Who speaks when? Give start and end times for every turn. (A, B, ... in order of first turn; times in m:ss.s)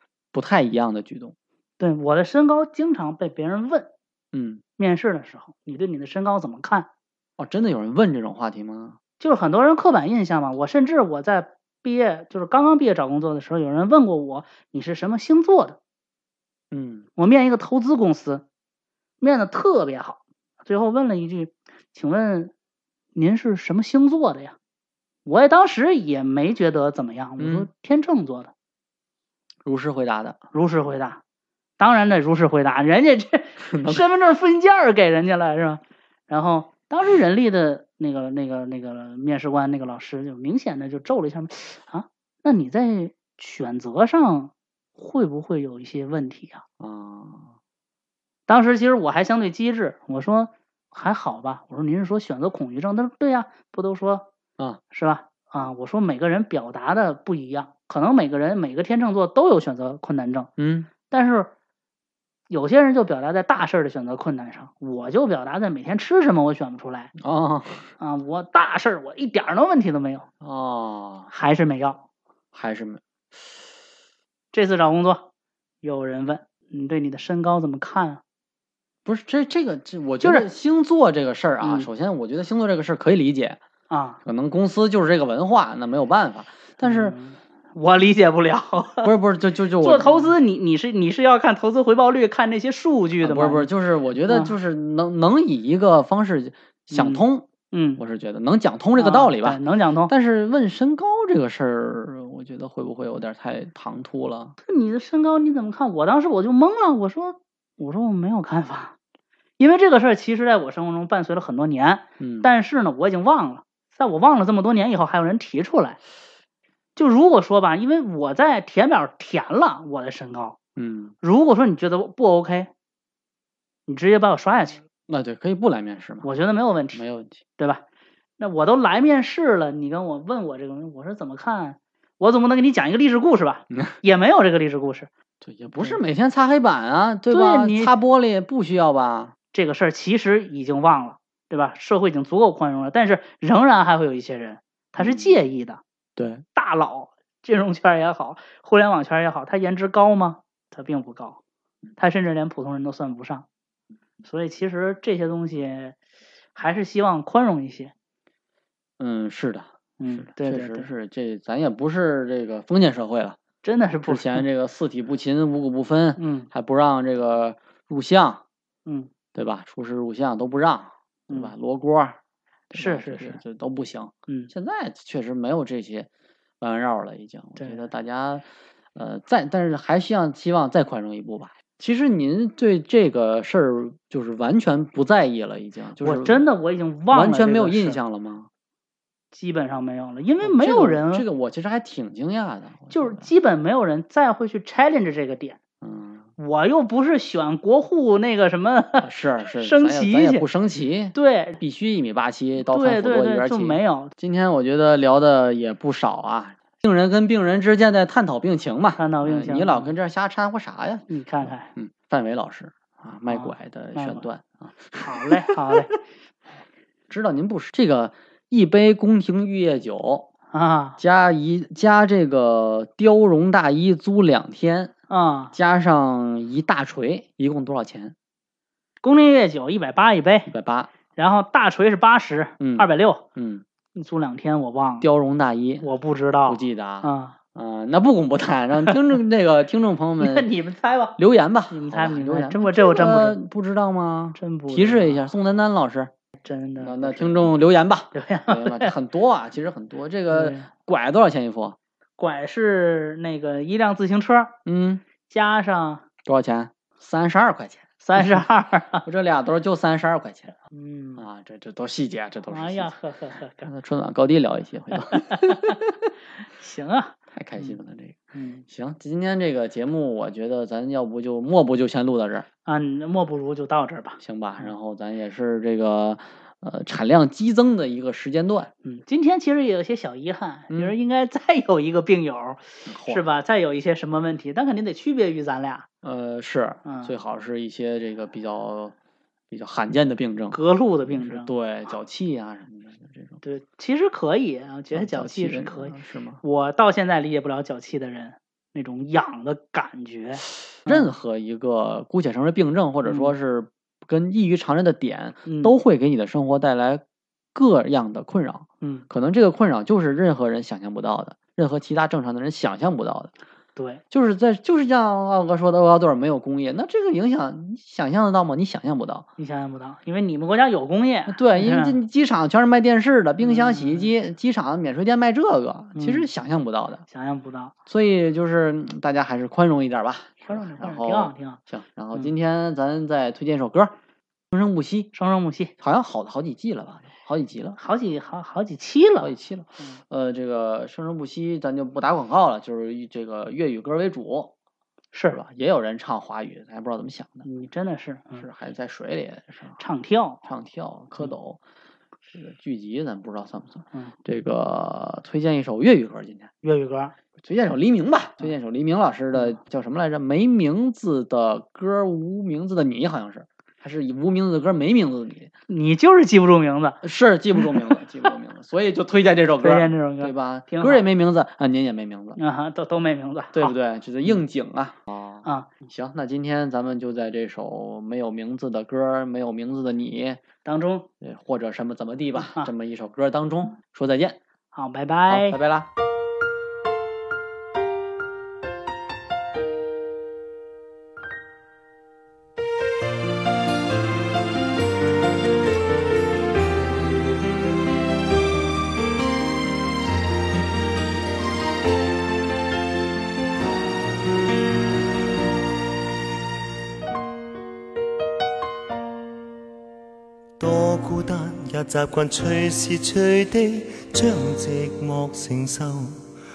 0:00.3-0:01.4 A
0:01.8-0:03.9 B
0:04.3-0:04.6 A
0:04.8-0:06.9 B
0:07.4-0:09.0 A
0:09.2-0:15.8 B
0:16.7-0:17.1 A
0:17.2-0:18.4 B
0:19.2-0:22.5 B
0:23.1-0:24.6 B
0:25.3-0:28.5 B
0:27.4-0:27.7 A
0:29.6-0:30.4 A
0:30.5-0:31.2 B
0:31.8-0:46.6 B
0:33.6-0:34.1 A
0:46.8-0:47.5 A
0:48.5-0:54.3 B
0:54.9-1:00.5 B
1:00.6-1:00.9 A
1:01.1-1:01.5 B
1:02.5-1:07.1 B
1:07.2-1:07.9 A
1:08.0-1:10.3 B
1:10.4-1:11.3 A
1:11.3-1:12.0 B
1:12.5-1:13.0 A
1:14.5-1:15.3 B
1:15.8-1:18.2 B
1:19.0-1:23.6 A
1:20.2-1:20.5 B
1:21.6-1:21.9 B
1:23.9-1:24.2 B
1:24.2-1:27.2 A
1:26.8-1:29.1 B
1:29.0-1:30.4 A
1:29.8-1:33.7 B
1:33.2-1:44.6 A
1:34.3-1:34.5 B
1:36.9-1:38.0 B
1:39.0-1:40.1 B
1:44.6-1:49.0 B
1:49.6-1:56.0 B
1:52.2-1:52.5 A
1:57.0-2:00.6 B
2:00.8-2:01.1 A
2:01.2-2:02.7 B
2:03.9-2:04.8 B
2:05.1-2:06.3 A
2:06.2-2:07.0 B
2:06.9-2:07.4 A
2:07.6-2:07.8 B
2:08.4-2:15.1 B
2:15.4-2:19.3 A
2:17.3-2:18.0 B
2:19.5-2:25.8 B
2:25.0-2:25.3 A
2:26.2-2:26.4 A
2:26.6-2:31.4 B
2:32.0-2:33.4 B
2:34.2-2:36.0 B
2:36.5-2:37.9 B
2:39.0-2:43.4 A
2:40.0-2:40.9 B
2:43.6-2:44.4 B
2:44.1-2:48.4 A
2:46.2-2:46.5 B
2:49.3-2:52.2 A
2:52.7-2:56.1 A
2:52.7-2:53.4 B
2:56.6-3:06.4 A
2:57.6-2:57.9 B
3:06.0-3:08.0 B
3:07.1-3:08.5 A
3:09.3-3:11.2 B
3:10.4-3:13.3 A
3:12.9-3:15.6 B
3:15.8-3:16.3 A
3:16.4-3:20.4 B
3:19.0-3:35.6 A
3:21.1-3:21.6 B
3:22.6-3:24.1 B
3:29.0-3:29.9 B
3:31.1-3:31.7 B
3:33.3-3:34.3 B
3:35.0-3:35.9 B
3:37.1-3:40.3 A
3:40.5-3:41.0 B
3:41.0-3:44.9 A
3:45.1-3:45.5 B
3:45.5-3:48.1 A
3:49.0-3:50.5 B
3:50.5-3:50.9 A
3:51.2-3:53.2 B
3:52.6-3:53.6 A
3:54.0-3:55.1 B
3:55.0-3:55.9 A
3:55.8-3:57.4 B
3:56.4-4:00.5 A
4:00.2-4:01.2 B
4:01.2-4:06.1 A
4:01.7-4:03.4 B
4:04.4-4:05.3 B
4:06.4-4:07.5 B
4:06.8-4:11.8 A
4:08.1-4:08.9 B
4:10.3-4:10.7 B
4:12.2-4:14.6 B
4:14.6-4:15.0 A
4:15.3-4:16.0 B
4:16.3-4:18.4 A
4:18.0-4:19.1 B
4:19.0-4:20.5 A
4:20.7-4:21.2 B
4:21.2-4:22.9 A
4:22.5-4:23.7 B
4:23.6-4:25.8 A
4:24.9-4:25.8 B
4:26.5-4:27.8 B
4:27.4-4:32.5 A
4:28.3-4:28.6 B
4:32.7-4:34.7 B
4:34.2-4:38.7 A
4:38.8-4:45.9 B
4:42.9-4:43.2 A
4:46.0-4:49.0 A
4:46.8-4:47.1 B
4:49.5-4:53.4 A
4:50.5-4:51.5 B
4:53.4-5:01.1 B
4:54.9-4:56.4 A
5:00.8-5:07.0 A
5:03.0-5:03.3 B
5:05.4-5:05.8 B
5:07.6-5:13.3 A
5:13.8-5:14.0 B
5:14.1-5:19.3 A
5:19.4-5:22.0 B
5:21.3-5:27.0 A
5:23.4-5:24.1 B
5:26.0-5:26.3 B
5:27.1-5:27.7 B
5:27.9-5:33.9 A
5:30.4-5:31.6 B
5:34.5-5:35.1 A
5:35.1-5:35.7 B
5:35.8-5:37.8 A
5:37.8-5:40.0 B
5:39.2-5:44.5 A
5:45.1-5:45.4 B
5:45.3-5:47.4 A
5:47.4-5:48.4 B
5:48.4-5:49.8 A
5:49.8-5:50.4 B
5:50.4-5:51.6 A
5:52.3-5:56.5 A
5:56.6-5:57.1 B
5:57.4-6:05.5 A
6:05.7-6:07.0 B
6:07.0-6:12.4 A
6:07.6-6:08.0 B
6:09.6-6:11.1 B
6:12.4-6:13.7 B
6:13.6-6:20.4 A
6:15.4-6:15.7 B
6:20.6-6:21.1 B
6:21.2-6:24.4 A
6:24.7-6:25.6 B
6:25.3-6:25.9 A
6:50.6-6:56.2 C